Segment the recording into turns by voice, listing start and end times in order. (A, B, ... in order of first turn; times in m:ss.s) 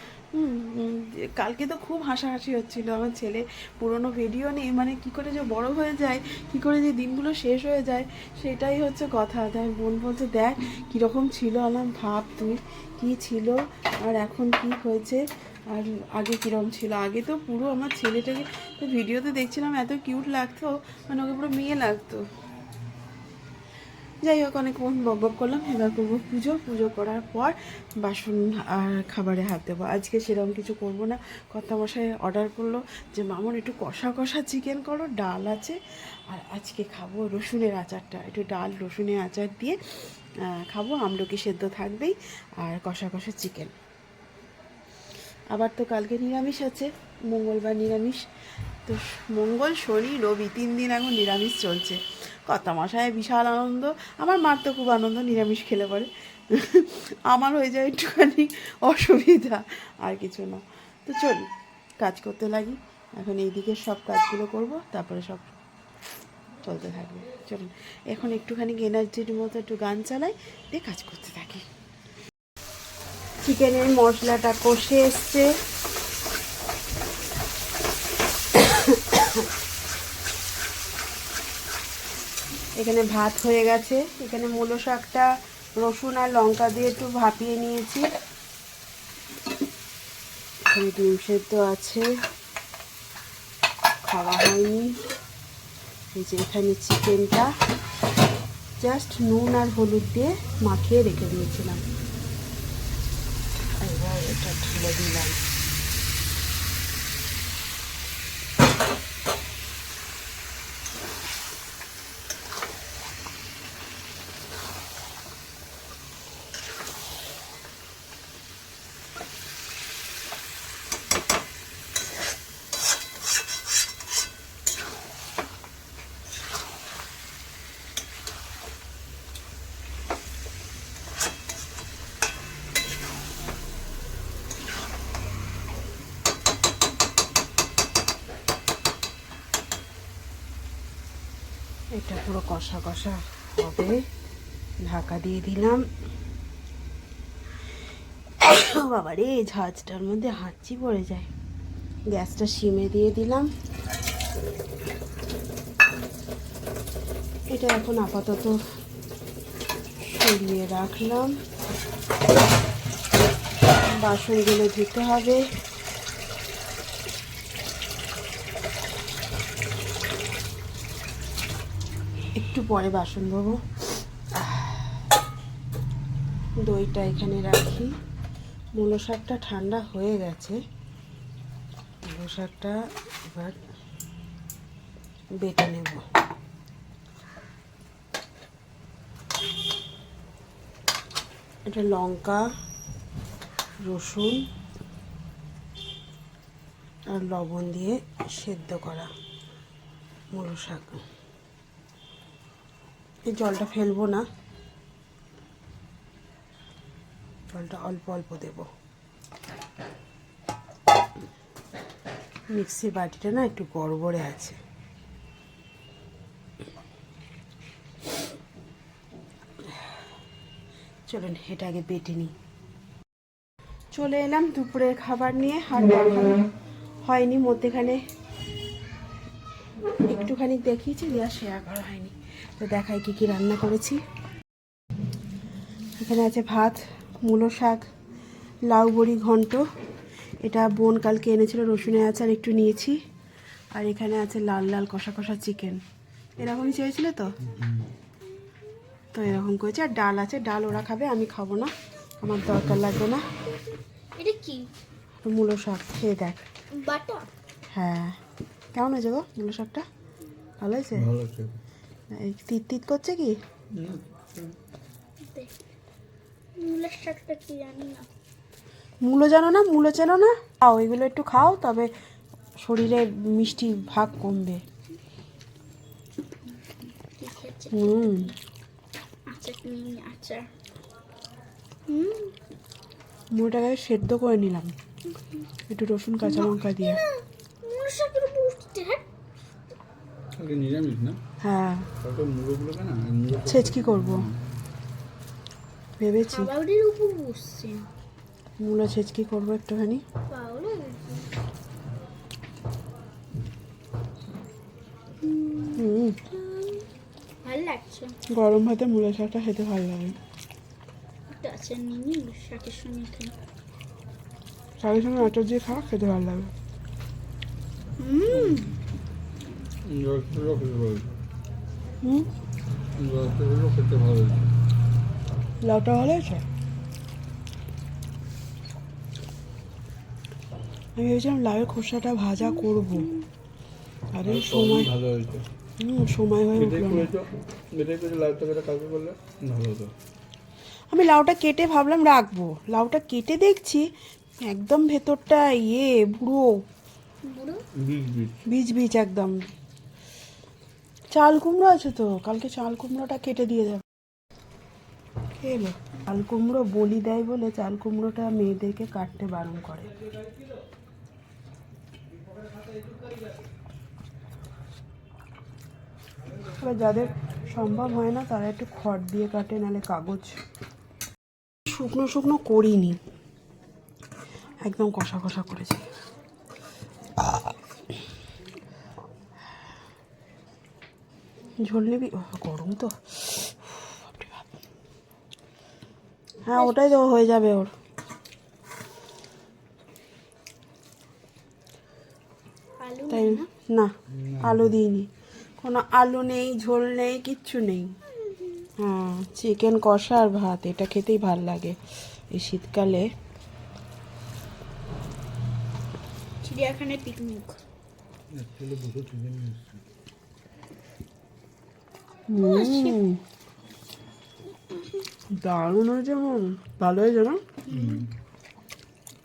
0:00.3-0:15.2 A
0:15.7-0:22.2 A
0:24.2-0:35.8 A
0:36.3-0:39.8 A
0:40.5-0:43.7 A
0:45.5-0:48.2 A
0:48.8-1:01.4 A
1:02.0-1:05.5 A
1:06.6-1:11.6 A
1:13.4-1:15.5 A
1:18.5-1:19.4 A
1:22.8-1:28.0 A
1:30.7-1:32.0 A
1:34.0-1:34.9 A
1:36.1-1:37.5 A
1:38.8-1:41.8 A
1:43.8-1:45.4 A
2:22.0-2:24.0 A
2:24.8-2:25.8 A
2:28.4-2:31.3 A
2:32.1-2:33.5 A
2:37.5-2:38.5 A
2:40.1-2:41.3 A
2:43.9-2:45.4 A
2:52.4-2:53.6 A
2:54.4-2:54.9 A
2:56.6-2:57.9 A
2:58.8-3:00.6 A
3:02.1-3:02.8 A
3:03.3-3:03.6 A
3:05.4-3:06.0 A
3:11.7-3:12.4 A
3:13.8-3:14.4 A
3:17.1-3:19.1 A
3:20.3-3:21.0 A
3:23.3-3:24.2 A
3:27.5-3:28.7 A
3:32.5-3:34.6 A
3:41.1-3:42.3 A
3:43.9-3:46.4 A
3:47.1-3:48.0 A
3:50.1-3:54.0 A
3:56.0-3:57.8 A
3:58.7-3:59.6 A
4:00.4-4:03.0 A
4:03.7-4:05.8 A
4:06.4-4:07.3 A
4:07.6-4:07.8 B
4:09.1-4:13.2 A
4:14.2-4:14.7 C
4:15.2-4:16.4 A
4:16.7-4:17.3 C
4:17.7-4:18.2 A
4:18.7-4:19.8 A
4:20.6-4:21.0 A
4:21.0-4:21.6 B
4:22.1-4:23.4 A
4:23.8-4:24.6 B
4:25.3-4:25.6 C
4:26.6-4:28.1 C
4:29.0-4:31.9 A
4:32.6-4:34.6 A
4:36.9-4:38.3 C
4:37.7-4:38.3 A
4:39.3-4:40.5 C
4:41.9-4:42.3 C
4:43.3-4:44.7 A
4:45.1-4:45.5 C
4:45.7-4:47.0 A
4:46.2-4:49.0 C
4:50.4-4:51.2 B
4:51.4-4:51.9 A
4:52.0-4:54.4 B
4:53.5-4:54.2 A
4:56.0-4:56.5 A
4:56.3-4:57.8 C
4:58.6-5:00.0 A
5:00.3-5:01.3 C
5:05.2-5:06.9 C
5:05.8-5:06.2 A
5:07.4-5:08.1 C
5:08.3-5:10.2 A
5:11.3-5:13.3 C
5:14.8-5:16.5 A
5:18.0-5:18.7 C
5:18.3-5:18.6 B
5:19.8-5:21.2 B
5:22.0-5:22.3 A
5:22.9-5:24.5 B
5:25.6-5:26.4 A
5:31.0-5:33.1 A
5:32.4-5:33.2 C
5:34.1-5:34.9 A
5:34.2-5:35.5 B
5:35.8-5:37.1 A
5:36.5-5:39.9 B
5:40.9-5:43.8 A
5:44.5-5:46.5 A
5:47.2-5:47.6 C
5:47.8-5:48.4 B
5:48.5-5:49.3 A
5:51.1-5:53.8 A
5:55.4-5:59.9 A
6:06.6-6:10.3 A
6:11.6-6:13.0 A
6:14.6-6:15.8 A
6:21.6-6:24.5 A
6:26.4-6:27.7 A
6:26.5-6:26.9 C
6:32.8-6:33.5 C
6:33.1-6:35.1 A
6:34.1-6:34.7 B
6:35.6-6:37.9 A
6:38.2-6:38.7 C
6:38.8-6:41.8 A
6:42.3-6:43.0 A
6:46.4-6:47.6 C
6:48.3-6:49.8 B
6:52.3-6:53.2 A
6:52.4-6:53.0 C
6:54.7-6:55.0 C
6:55.4-6:57.4 A
6:57.7-6:58.0 C
6:57.7-6:58.1 B